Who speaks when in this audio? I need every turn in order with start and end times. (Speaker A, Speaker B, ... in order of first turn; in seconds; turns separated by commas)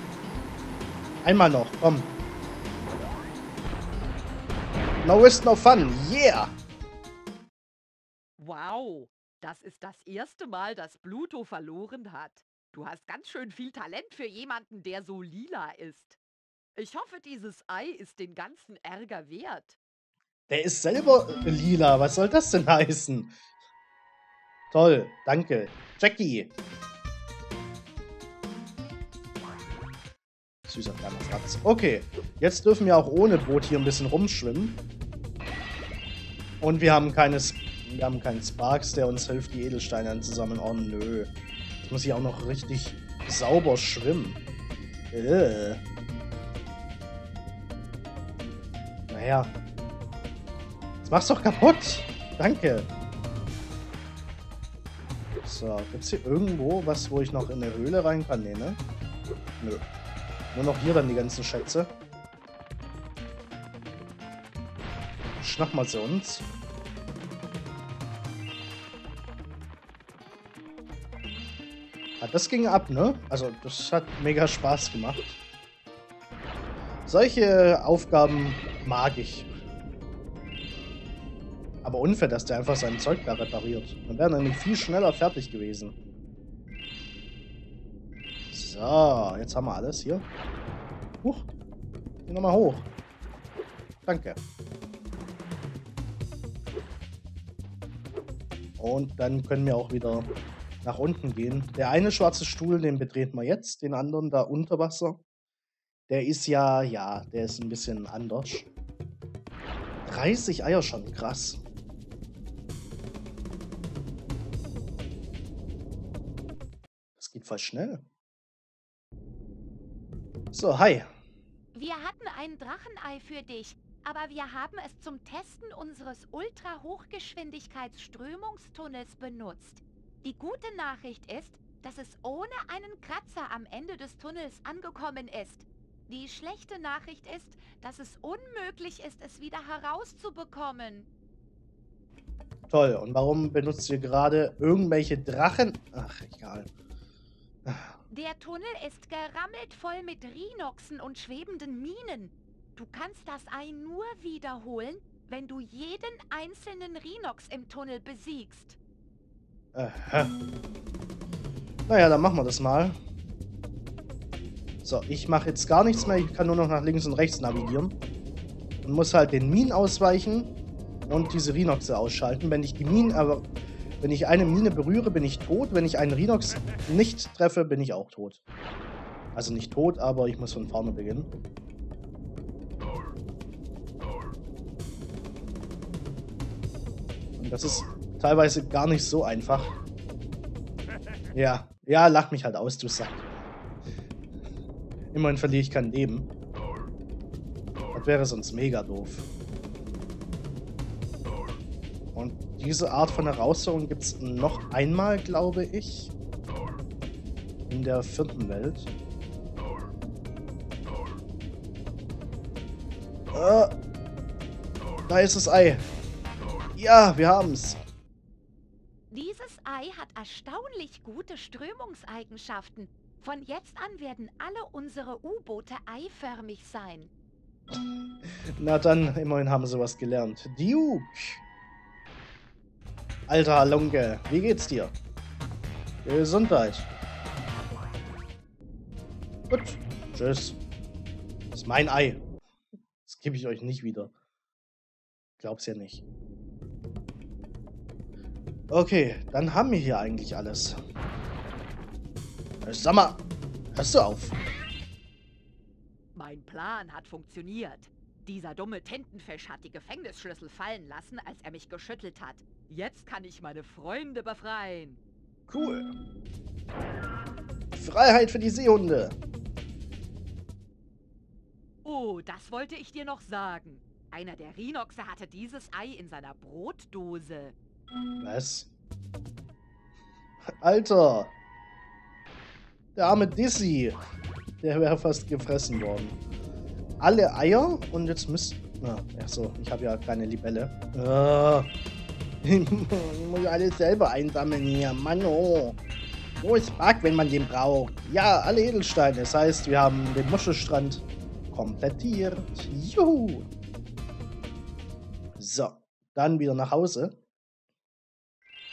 Speaker A: 1.2-2.1, Speaker A: 5.0-6.5, Speaker B: 8.4-16.2, Speaker B: 16.8-19.8, Speaker A: 20.5-23.3, Speaker A: 24.7-26.5, Speaker A: 30.7-34.8, Speaker A: 36.6-41.3, Speaker A: 41.9-44.4, Speaker A: 45.1-45.8, Speaker A: 49.1-49.5, Speaker A: 51.0-52.9, Speaker A: 55.4-58.8, Speaker A: 59.6-59.8, Speaker A: 60.5-61.9, Speaker A: 65.4-66.5, Speaker A: 72.2-75.4, Speaker A: 77.0-79.5, Speaker A: 81.8-85.9, Speaker A: 88.5-90.3, Speaker A: 91.2-91.5, Speaker A: 92.3-92.9, Speaker A: 94.0-94.4, Speaker A: 98.8-100.3, Speaker A: 100.8-105.2, Speaker A: 106.1-108.7, Speaker A: 110.0-111.6, Speaker A: 117.2-118.0, Speaker A: 120.5-121.1, Speaker C: 121.7-141.1, Speaker A: 142.7-146.7, Speaker A: 147.7-147.9, Speaker C: 148.1-158.8, Speaker A: 159.7-160.3, Speaker A: 161.9-163.0, Speaker A: 164.8-168.0, Speaker A: 168.8-173.5, Speaker A: 174.0-178.4, Speaker A: 179.3-181.3, Speaker A: 187.4-189.8, Speaker A: 191.3-193.2, Speaker A: 195.1-196.3, Speaker A: 197.9-199.3, Speaker A: 202.1-206.1, Speaker A: 207.7-208.9, Speaker A: 213.3-213.7, Speaker A: 215.1-215.8, Speaker A: 216.8-217.8, Speaker C: 219.1-227.1, Speaker A: 228.6-231.4, Speaker A: 233.3-234.9, Speaker A: 236.0-236.9, Speaker A: 239.5-240.6, Speaker A: 241.5-242.2, Speaker A: 243.0-244.1, Speaker A: 245.4-246.0, Speaker A: 248.7-250.8, Speaker A: 252.6-254.4, Speaker B: 256.1-265.0, Speaker A: 265.5-265.9, Speaker A: 267.8-269.2, Speaker B: 271.8-277.5, Speaker A: 278.2-278.7, Speaker A: 280.6-281.3, Speaker A: 282.9-284.0, Speaker A: 284.6-286.2, Speaker A: 287.0-291.7, Speaker A: 292.4-295.8, Speaker A: 296.4-303.5, Speaker A: 305.4-307.1